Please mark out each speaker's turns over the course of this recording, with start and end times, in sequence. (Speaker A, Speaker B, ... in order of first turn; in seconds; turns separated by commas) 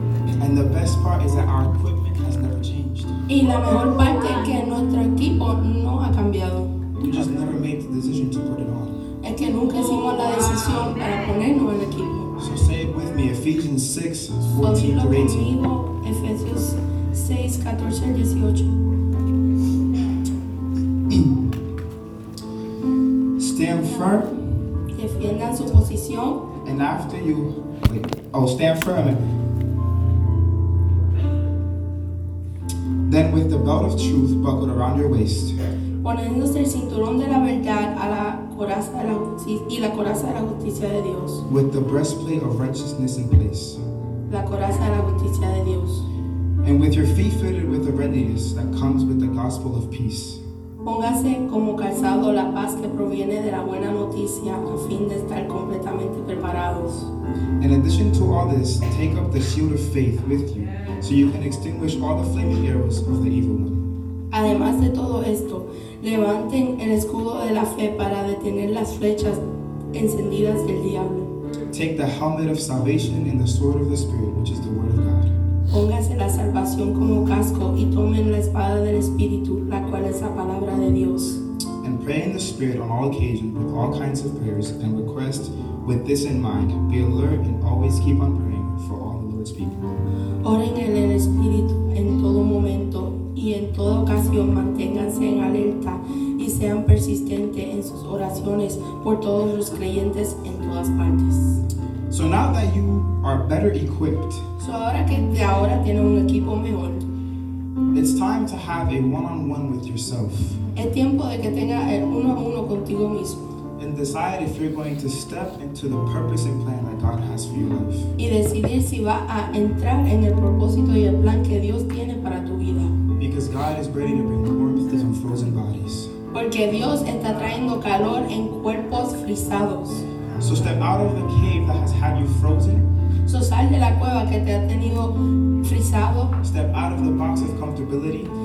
Speaker A: 0.4-3.2, Speaker B: 3.3-6.7, Speaker A: 7.0-8.9, Speaker B: 9.2-12.3, Speaker A: 12.4-15.5, Speaker B: 14.6-18.7, Speaker A: 21.1-21.4, Speaker A: 23.4-24.3, Speaker B: 24.9-26.4, Speaker A: 26.6-29.2, Speaker A: 33.0-35.5, Speaker B: 36.0-41.4, Speaker A: 41.5-43.8, Speaker B: 44.3-46.0, Speaker A: 46.6-50.4, Speaker B: 50.8-57.1, Speaker A: 57.6-63.8, Speaker B: 64.3-69.4, Speaker B: 69.9-71.3, Speaker A: 71.7-75.3, Speaker B: 75.7-81.4, Speaker A: 81.8-89.8, Speaker B: 90.4-101.6, Speaker A: 102.1-104.4, Speaker B: 104.6-107.0, Speaker A: 107.9-110.6, Speaker B: 110.7-113.4, Speaker A: 113.8-118.1, Speaker B: 118.2-122.9, Speaker A: 123.2-126.1, Speaker B: 126.3-130.1, Speaker A: 130.4-132.8, Speaker B: 133.2-136.3, Speaker A: 136.4-138.3